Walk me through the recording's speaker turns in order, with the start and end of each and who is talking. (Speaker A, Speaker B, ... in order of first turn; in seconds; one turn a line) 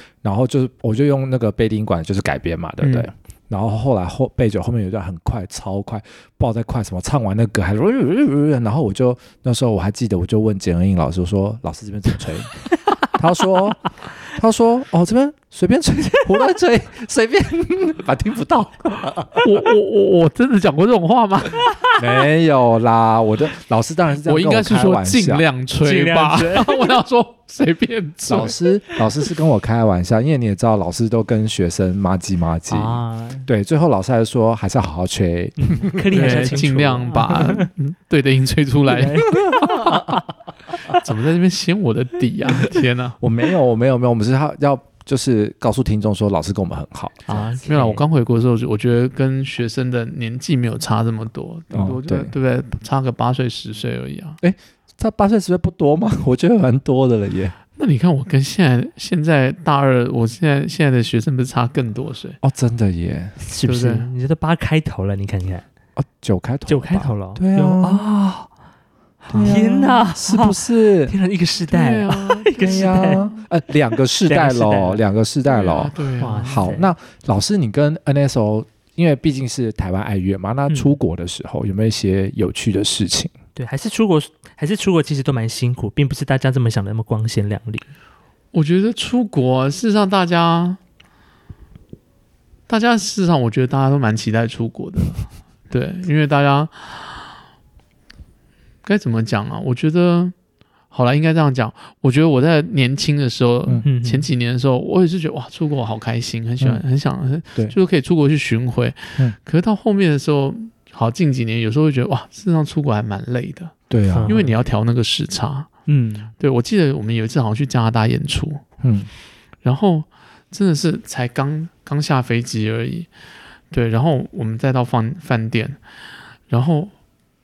Speaker A: 0.2-19.6
Speaker B: 2.8-3.1
Speaker B: 19.4-21.7
Speaker A: 22.0-25.4
Speaker B: 24.2-28.6
Speaker C: 25.8-26.9
Speaker A: 28.2-36.7
Speaker C: 32.7-33.5
Speaker C: 35.6-37.7
Speaker B: 36.1-39.9
Speaker C: 38.9-40.1
Speaker A: 39.5-40.0
Speaker B: 40.9-43.2
Speaker A: 43.2-47.3
Speaker C: 47.3-48.0
Speaker B: 47.3-54.4
Speaker A: 51.7-52.3
Speaker A: 54.4-57.5
Speaker B: 57.8-62.4
Speaker A: 62.4-63.4
Speaker C: 63.4-65.7
Speaker B: 63.6-64.1
Speaker A: 66.0-68.1
Speaker C: 66.7-68.5
Speaker A: 69.3-71.2
Speaker C: 69.3-73.2
Speaker B: 71.7-73.4
Speaker A: 72.6-83.3
Speaker C: 74.0-75.0
Speaker B: 75.5-76.7
Speaker C: 76.2-76.9
Speaker C: 80.7-81.0
Speaker C: 83.6-87.8
Speaker B: 88.5-90.8
Speaker B: 92.7-97.3
Speaker B: 98.8-100.3
Speaker B: 100.9-113.7
Speaker C: 103.8-104.3
Speaker A: 113.9-114.4
Speaker C: 114.1-114.5
Speaker B: 114.3-115.7
Speaker C: 115.9-116.3
Speaker B: 116.4-118.6
Speaker A: 118.8-119.1
Speaker B: 119.6-123.1
Speaker B: 123.7-125.8
Speaker B: 126.5-126.9